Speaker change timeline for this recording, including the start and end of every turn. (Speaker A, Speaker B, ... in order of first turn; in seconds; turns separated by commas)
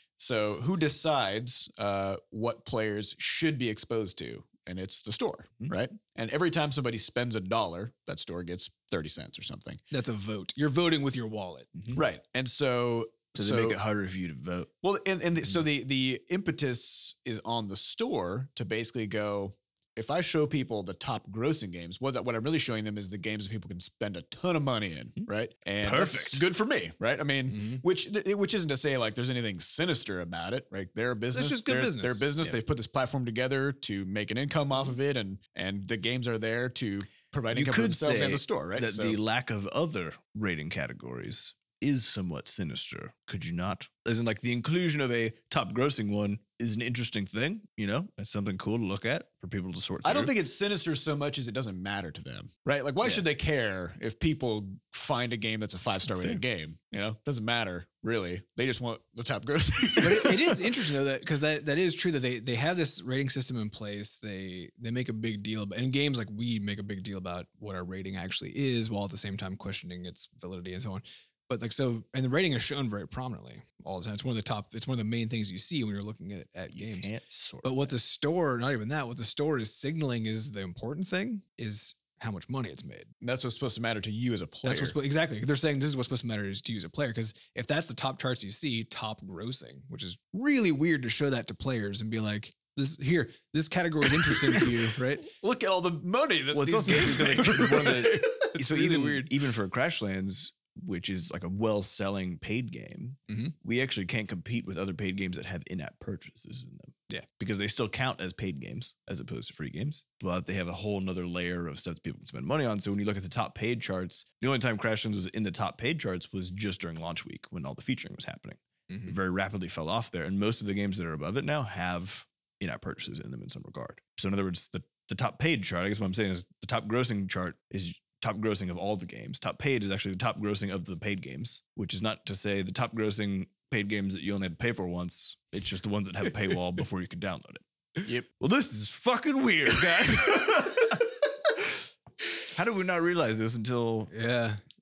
Speaker A: 0.2-9.8, Speaker B: 9.9-11.8, Speaker A: 11.9-13.8, Speaker C: 13.4-14.7, Speaker A: 14.8-39.2, Speaker C: 25.8-26.4, Speaker B: 31.3-32.2, Speaker C: 37.5-50.3, Speaker A: 50.0-60.7, Speaker C: 56.1-56.4, Speaker B: 60.0-77.1, Speaker C: 76.7-77.9, Speaker B: 77.6-83.1, Speaker A: 83.2-85.0, Speaker B: 84.6-95.3, Speaker A: 94.2-98.4, Speaker C: 96.5-137.6, Speaker B: 96.9-99.3, Speaker B: 103.3-103.5, Speaker B: 118.9-119.2, Speaker C: 138.4-141.0, Speaker C: 142.5-144.1, Speaker B: 144.1-144.6